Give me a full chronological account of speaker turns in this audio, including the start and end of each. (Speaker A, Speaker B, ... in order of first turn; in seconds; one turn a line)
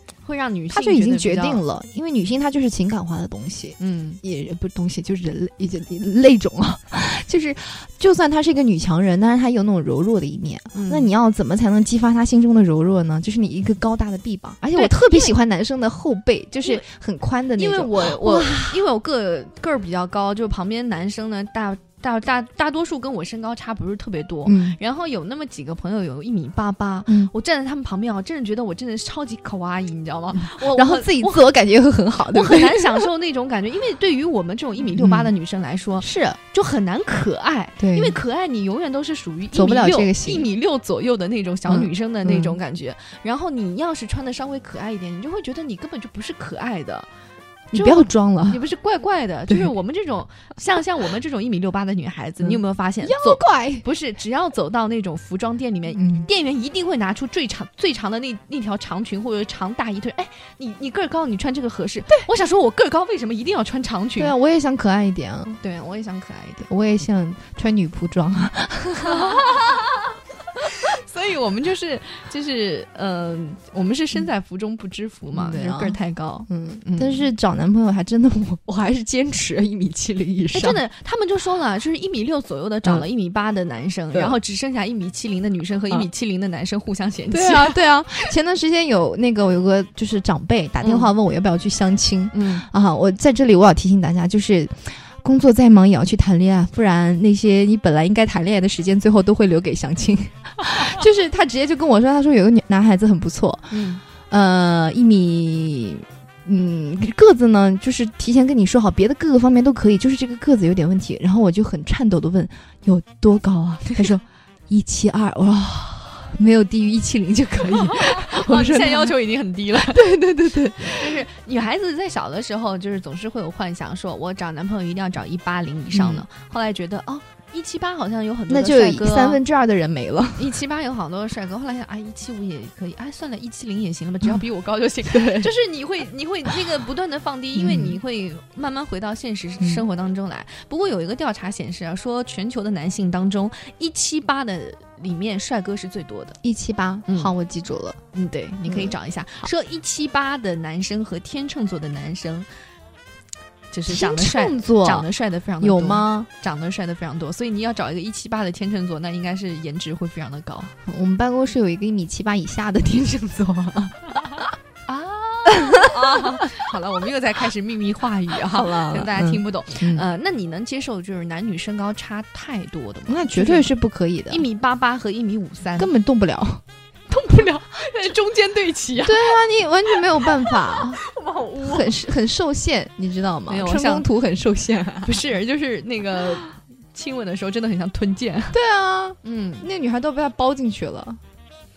Speaker A: 0.2-1.6
Speaker B: 0.7-18.8
Speaker A: 3.8-4.2
Speaker A: 10.7-11.1
Speaker A: 14.8-15.3
Speaker A: 17.6-31.5
Speaker B: 24.4-24.8
Speaker B: 27.1-27.3
Speaker B: 30.5-33.1
Speaker A: 32.3-47.1
Speaker B: 34.9-35.3
Speaker B: 36.0-36.4
Speaker B: 37.8-38.2
Speaker B: 39.5-40.5
Speaker B: 41.7-42.6
Speaker B: 47.7-48.6
Speaker A: 47.7-64.3
Speaker B: 52.4-53.9
Speaker B: 55.9-56.3
Speaker B: 64.2-65.6
Speaker A: 65.6-66.7
Speaker B: 66.7-69.4
Speaker A: 69.0-70.1
Speaker A: 70.6-77.3
Speaker B: 75.3-76.0
Speaker B: 76.5-80.8
Speaker A: 80.5-87.8
Speaker B: 87.3-119.2
Speaker A: 90.8-91.1
Speaker A: 92.3-92.7
Speaker A: 103.7-104.0
Speaker A: 117.9-120.1
Speaker B: 119.8-121.2
Speaker A: 120.8-129.4
Speaker B: 125.9-126.2
Speaker B: 128.5-130.6
Speaker A: 130.4-146.4
Speaker B: 135.1-135.5
Speaker B: 137.6-138.0
Speaker B: 146.4-148.0
Speaker A: 147.1-147.3
Speaker A: 148.1-152.5
Speaker B: 148.7-149.5
Speaker A: 153.7-160.7
Speaker B: 153.9-155.1
Speaker B: 155.6-156.3
Speaker B: 160.9-164.4
Speaker A: 164.9-173.7
Speaker B: 168.4-170.1
Speaker B: 173.1-174.4
Speaker A: 174.3-175.9
Speaker B: 175.8-176.6
Speaker A: 177.1-179.4
Speaker B: 179.0-181.0
Speaker A: 179.9-181.9
Speaker B: 181.6-185.2
Speaker A: 183.5-184.1
Speaker A: 185.1-188.6
Speaker B: 188.5-191.2
Speaker A: 189.2-189.7